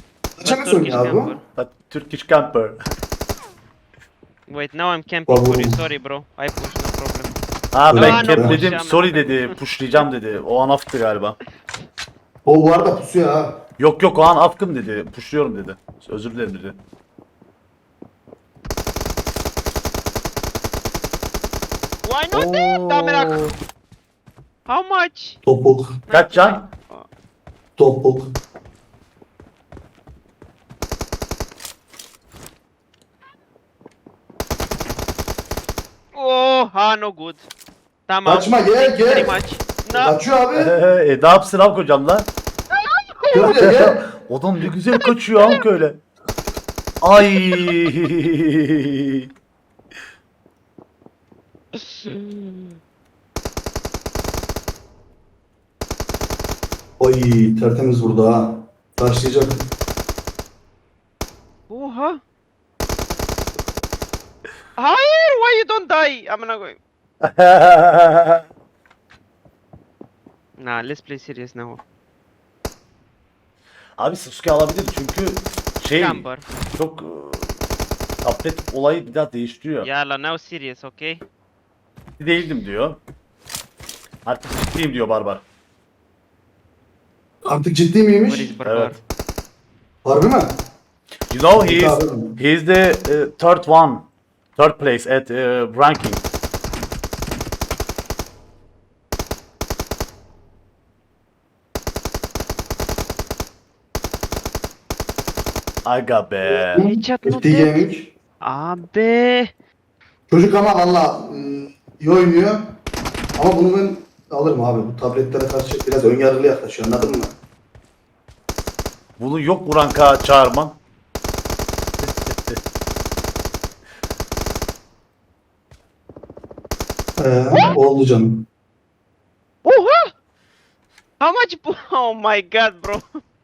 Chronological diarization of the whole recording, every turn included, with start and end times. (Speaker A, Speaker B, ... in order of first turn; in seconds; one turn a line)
Speaker A: 0.4-1.3
Speaker B: 0.4-1.4
Speaker C: 1.6-2.8
Speaker B: 4.5-7.3
Speaker A: 5.3-5.8
Speaker C: 7.7-11.4
Speaker A: 7.9-8.6
Speaker B: 7.9-9.6
Speaker A: 12.4-13.6
Speaker C: 13.8-16.8
Speaker B: 22.1-23.5
Speaker C: 22.3-23.5
Speaker B: 24.7-25.4
Speaker A: 25.4-25.9
Speaker B: 26.1-27.1
Speaker C: 26.1-26.6
Speaker A: 27.8-28.4
Speaker B: 36.1-37.5
Speaker B: 38.1-40.2
Speaker A: 38.2-39.4
Speaker A: 39.9-40.7
Speaker C: 40.6-42.3
Speaker A: 43.3-44.0
Speaker C: 43.5-46.0
Speaker C: 47.0-49.3
Speaker B: 51.8-52.7
Speaker A: 57.0-59.7
Speaker B: 61.7-62.2
Speaker B: 64.8-66.8
Speaker C: 67.2-68.5
Speaker B: 70.6-71.8
Speaker C: 74.0-77.6
Speaker B: 76.0-76.4
Speaker C: 78.2-79.9
Speaker B: 79.8-81.2
Speaker C: 82.2-83.0
Speaker C: 84.2-85.4
Speaker A: 87.5-88.5
Speaker B: 88.3-89.0
Speaker C: 88.7-89.0
Speaker A: 90.0-90.6
Speaker C: 91.3-96.2
Speaker A: 91.5-92.4
Speaker C: 105.8-106.8
Speaker B: 106.5-107.9
Speaker A: 106.8-108.1
Speaker B: 108.4-109.5
Speaker A: 110.3-112.7
Speaker A: 113.4-117.3
Speaker C: 119.2-120.8
Speaker C: 122.0-122.6
Speaker A: 127.2-128.5
Speaker B: 129.7-130.1
Speaker B: 131.2-133.2